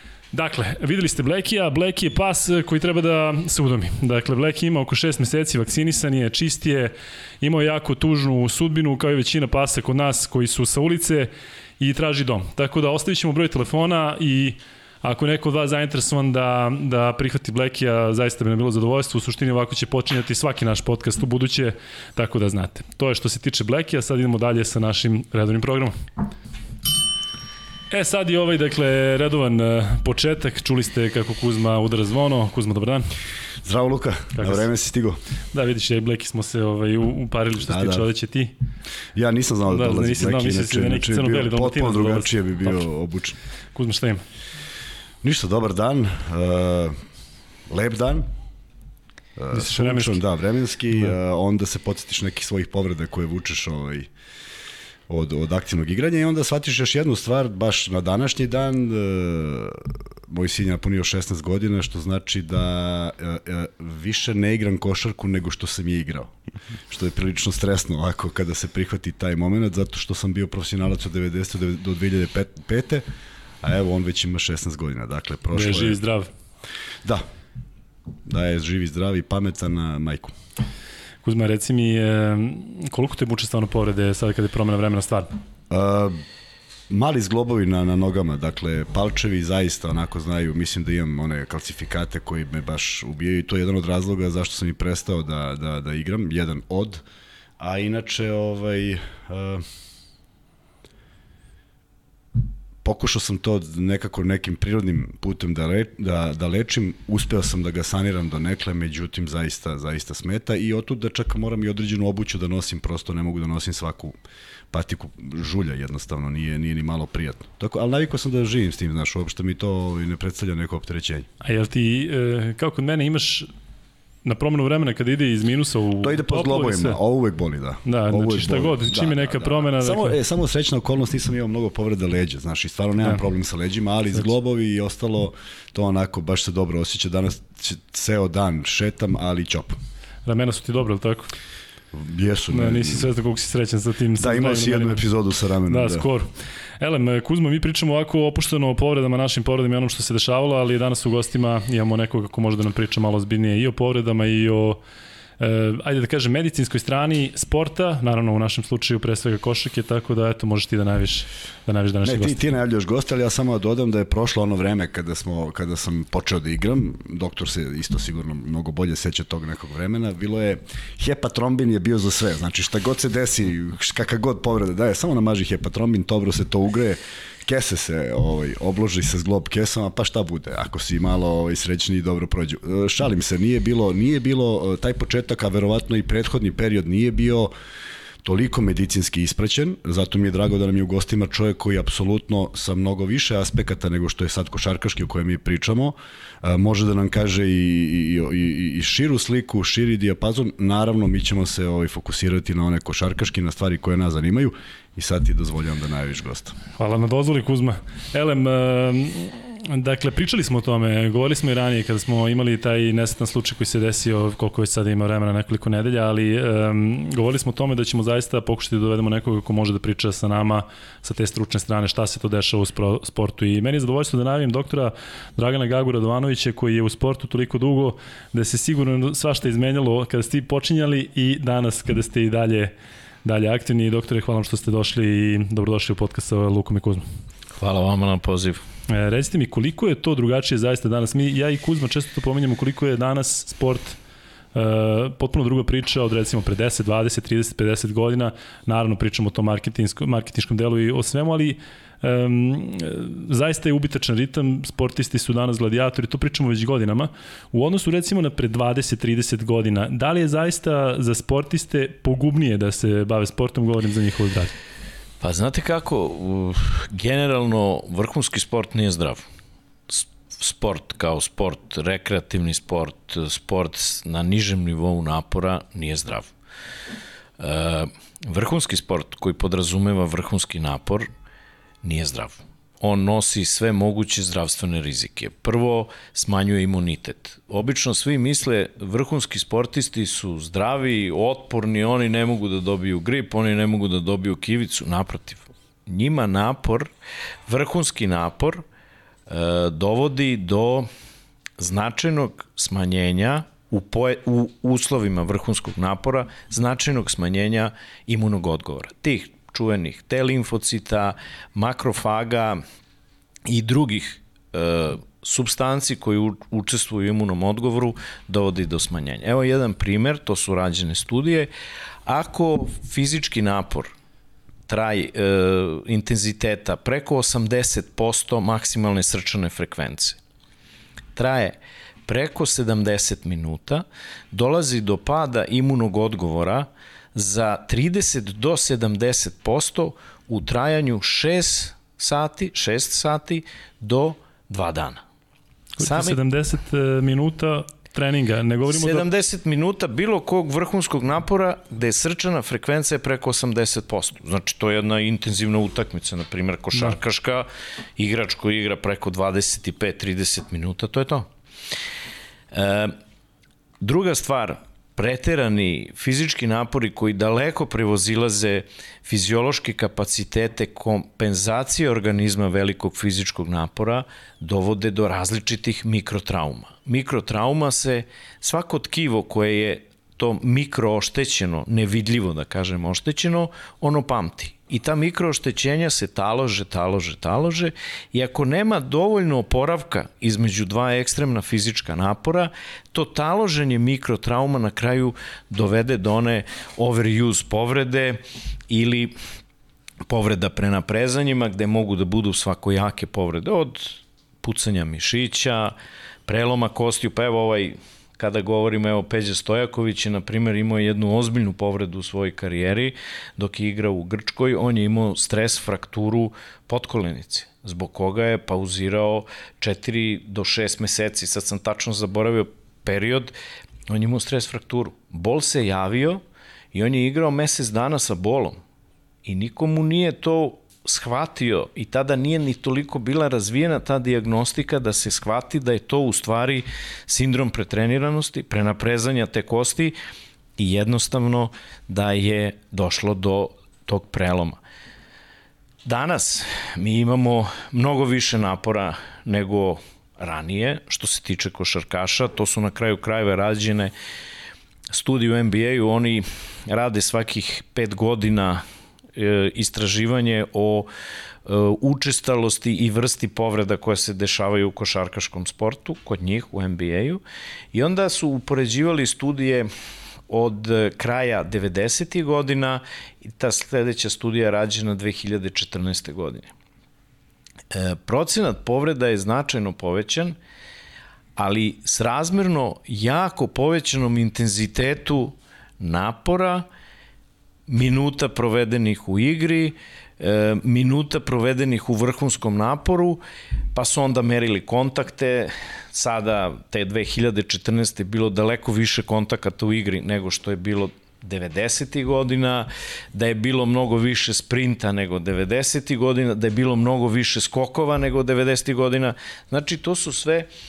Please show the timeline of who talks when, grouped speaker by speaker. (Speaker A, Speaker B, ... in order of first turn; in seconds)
Speaker A: 0.3-25.9, 27.9-33.1, 34.4-34.6, 35.5-38.5, 39.7-42.8, 43.7-44.2, 49.5-50.2, 75.5-76.3, 81.2-85.3, 121.4-123.5, 124.2-127.0, 127.8-130.2, 140.2-141.3, 142.5-145.1, 145.7-154.8, 155.4-162.4, 206.7-232.7, 233.2-237.0, 238.9-244.0, 244.5-264.5, 345.8-349.1
Speaker B: 33.6-35.2, 37.6-38.1, 39.1-43.4, 45.2-46.9, 47.7-48.2, 49.4-54.1, 55.1-66.3, 66.9-73.0, 73.6-76.0, 78.2-80.3, 85.7-86.2, 86.9-97.0, 97.6-99.6, 102.8-114.2, 114.7-121.3, 126.0-139.8, 141.9-143.1, 144.2-146.1, 162.0-187.5, 188.2-206.6
Speaker C: 237.6-238.6, 265.2-269.2, 269.9-276.3, 277.4-281.1, 281.8-296.9, 297.5-298.6, 299.3-300.9, 301.6-312.6, 313.4-321.5, 322.1-323.9, 324.7-330.2, 331.1-345.0, 345.8-346.2, 348.6-361.3, 362.5-362.9, 363.8-399.1, 400.1-405.7, 406.3-423.3, 423.9-426.2, 426.7-428.6, 429.2-439.9, 440.6-444.6, 445.8-453.9, 454.9-458.6, 459.1-460.9, 461.4-467.2, 467.7-469.7, 470.3-476.5, 477.7-480.4, 481.4-486.6, 487.7-493.2, 493.7-510.5